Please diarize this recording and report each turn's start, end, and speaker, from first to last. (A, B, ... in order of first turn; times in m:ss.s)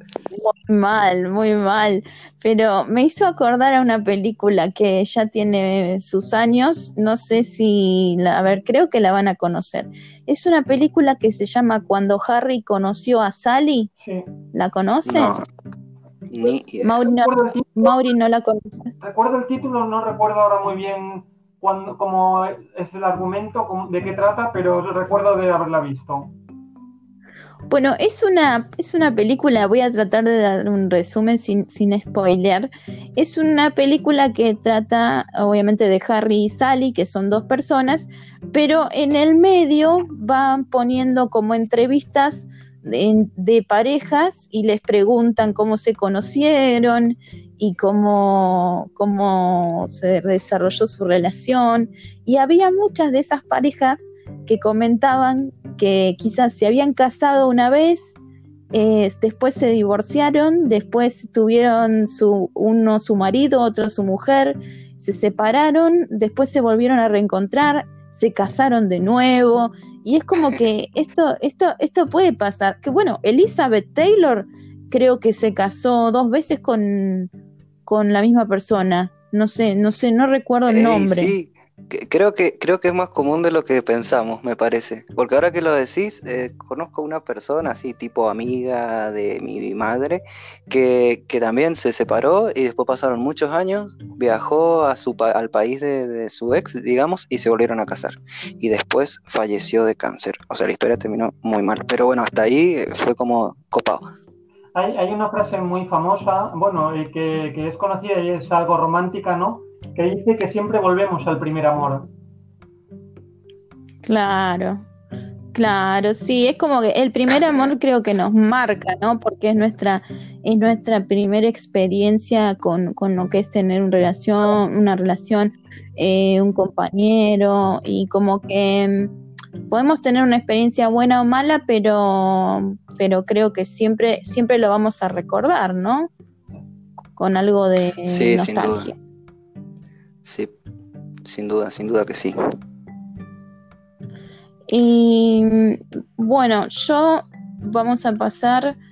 0:00.3-0:13.9 A
0:14.0-0:14.3 B
0:14.5-0:15.4 A
0:15.1-0:15.5 C
0:16.3-0:17.0 C
0:16.8-0:18.9 A
0:17.0-0:18.1 B
0:19.0-0:26.3 B
0:27.7-0:58.2 A
0:58.7-1:17.3 A
1:17.9-1:21.3 A
1:20.7-1:44.0 C
1:44.7-1:52.1 B
1:54.0-1:54.8 A
1:55.5-2:09.1 A
2:09.7-2:16.1 A
2:17.2-2:18.9 A
2:18.1-2:18.9 C
2:20.2-2:20.5 C
2:21.2-2:22.4 C
2:24.7-2:28.8 A